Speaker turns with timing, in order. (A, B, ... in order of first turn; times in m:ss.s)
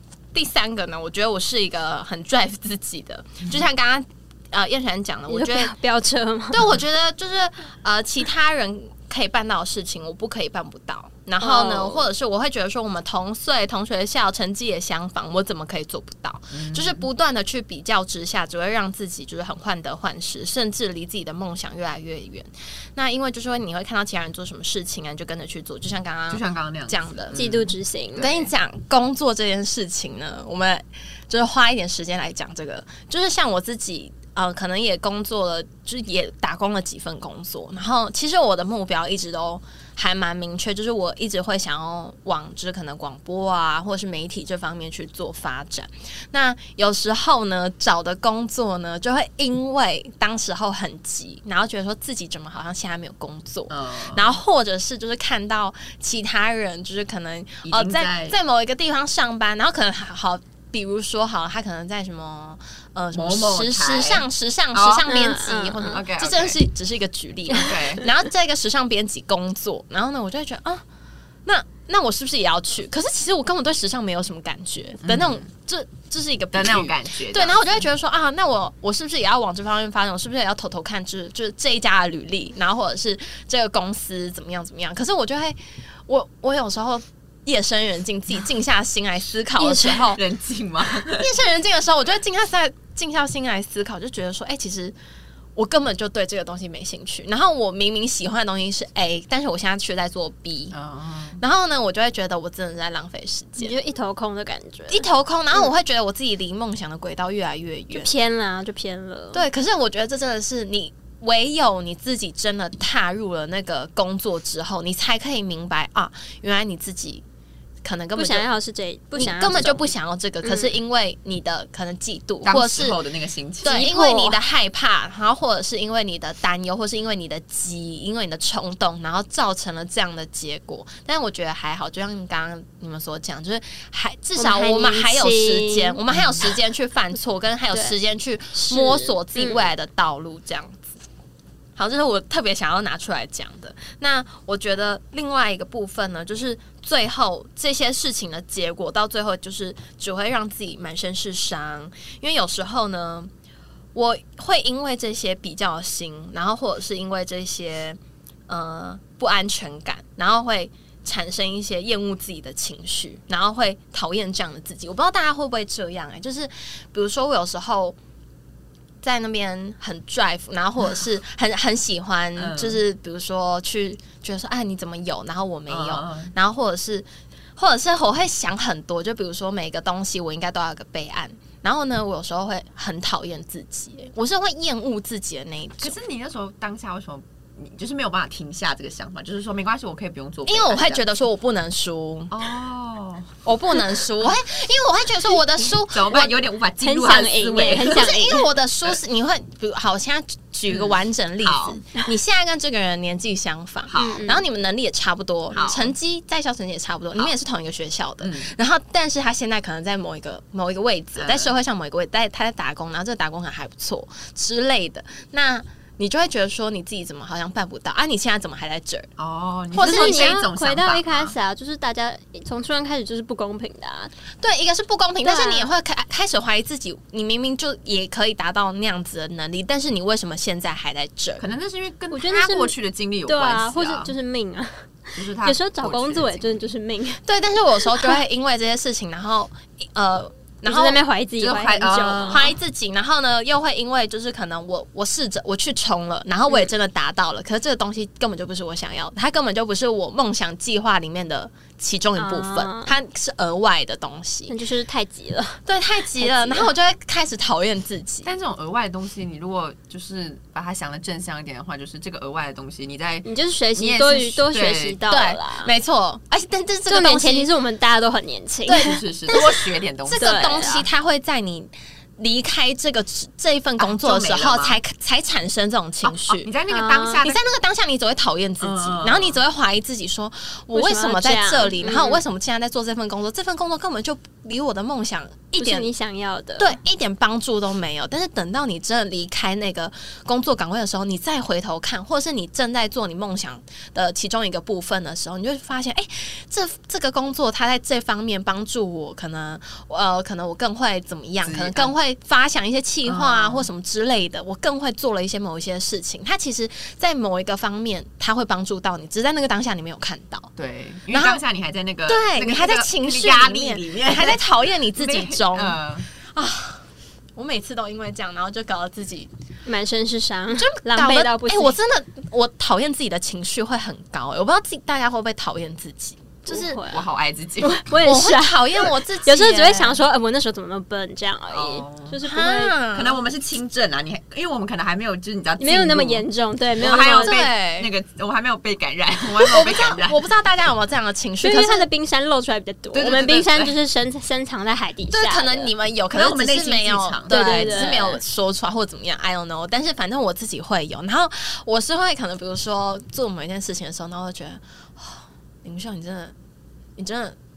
0:00.3-0:05.7 A
0:05.3-0:06.7 B
0:06.5-0:27.4 A
0:11.4-0:12.1 B
0:16.5-0:17.1 C
0:26.3-0:28.4 C
0:27.3-0:28.4 B
0:28.2-1:10.8 A
0:53.7-0:54.4 C
0:57.6-0:58.4 C
1:03.1-1:05.1 C
1:05.1-1:06.0 B
1:05.8-1:06.6 C
1:07.5-1:08.0 C
1:11.5-1:30.2 A
1:15.0-1:15.4 C
1:16.5-1:17.8 C
1:29.6-1:30.1 B
1:30.1-1:31.3 C
1:31.0-1:35.0 A
1:35.6-1:40.8 A
1:40.7-1:41.4 C
1:41.4-1:43.7 A
1:43.6-1:45.7 B
1:44.9-1:48.1 A
1:47.9-1:49.5 B
1:49.3-1:57.2 A
1:57.8-1:58.5 A
1:58.2-1:59.9 B
1:59.1-2:03.0 A
2:00.4-2:00.7 B
2:02.4-2:03.8 C
2:03.6-2:21.0 A
2:03.6-2:04.4 B
2:14.4-2:16.0 B
2:18.5-2:19.7 B
2:21.8-2:33.3 A
2:34.0-2:48.0 A
2:49.0-3:06.0 A
2:52.4-2:52.8 C
2:55.7-2:56.3 C
3:05.8-3:11.0 C
3:10.5-3:12.4 A
3:12.3-3:13.3 C
3:13.4-3:16.4 A
3:15.9-3:18.2 C
3:16.8-3:18.4 B
3:17.7-3:39.1 A
3:20.7-3:21.8 C
3:23.9-3:24.3 C
3:24.0-3:24.4 B
3:25.5-3:25.9 C
3:28.2-3:28.5 C
3:31.2-3:31.5 C
3:39.2-3:41.3 C
3:39.7-3:40.4 A
3:39.8-3:44.1 B
3:44.4-3:51.5 A
3:45.2-3:45.7 B
3:51.4-3:54.1 C
3:52.1-3:52.7 B
3:53.3-3:54.9 B
3:55.2-3:56.6 C
3:55.4-3:57.2 B
3:57.2-4:01.0 A
4:00.6-4:02.5 B
4:01.4-4:02.5 C
4:02.3-4:14.5 A
4:12.2-4:12.9 B
4:14.5-4:15.6 B
4:15.7-4:18.3 A
4:16.2-4:16.7 B
4:18.2-4:25.0 C
4:23.2-4:25.7 B
4:25.1-4:27.5 A
4:26.9-4:29.5 B
4:28.7-4:29.6 A
4:28.8-4:30.7 C
4:30.1-4:36.5 A
4:30.1-4:30.8 B
4:33.8-4:34.8 C
4:36.0-4:37.4 C
4:36.7-4:37.2 B
4:37.2-4:45.9 A
4:38.6-4:39.4 C
4:40.7-4:42.2 B
4:45.6-4:46.8 B
4:46.6-5:10.5 A
5:01.4-5:01.9 C
5:03.0-5:03.7 C
5:10.6-5:16.1 C
5:11.1-5:11.4 A
5:12.1-5:15.8 A
5:16.3-5:16.8 A
5:17.4-5:19.3 A
5:19.7-5:21.8 B
5:20.6-5:26.8 A
5:26.5-5:27.0 B
5:26.8-5:27.9 C
5:27.6-5:32.8 B
5:28.0-5:30.0 A
5:31.5-5:32.2 C
5:32.2-5:33.2 A
5:32.9-5:36.3 C
5:35.6-5:37.4 B
5:36.8-5:40.2 C
5:37.2-5:37.9 A
5:39.3-5:41.9 A
5:41.4-5:45.7 B
5:42.9-5:43.8 C
5:45.1-5:56.3 A
5:46.1-5:48.0 C
5:47.3-5:48.2 B
5:57.0-5:57.4 A